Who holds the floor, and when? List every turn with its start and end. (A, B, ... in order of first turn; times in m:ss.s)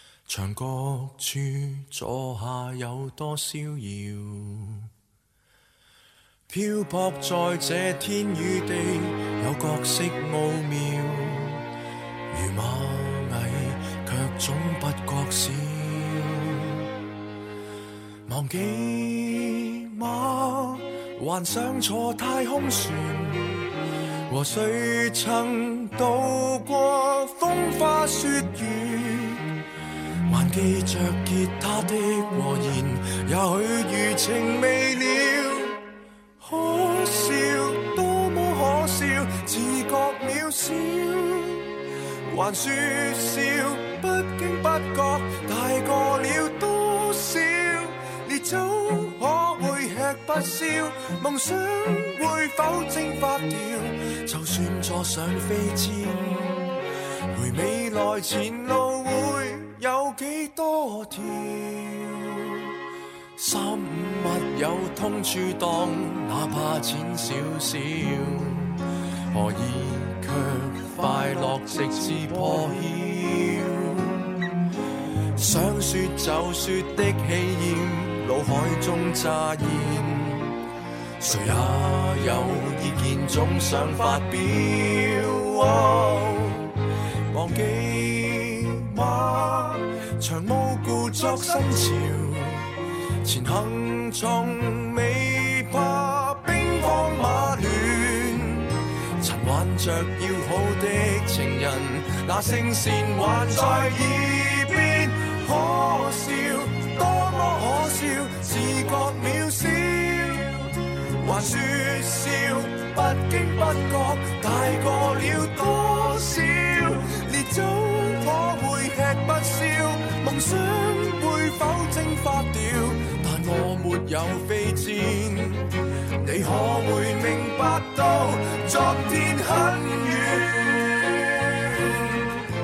0:00.3-0:04.9 A
0:06.5-0:11.7 A
0:12.3-0:16.9 A
0:18.3-0:23.7 A
0:24.3-0:29.6 A
0:30.2-0:35.8 A
0:36.4-0:41.7 A
0:42.3-0:56.8 A
0:57.3-1:02.7 A
1:03.4-1:14.4 A
1:15.3-1:20.6 A
1:21.2-1:26.8 A
1:27.3-1:32.7 A
1:33.2-2:12.2 A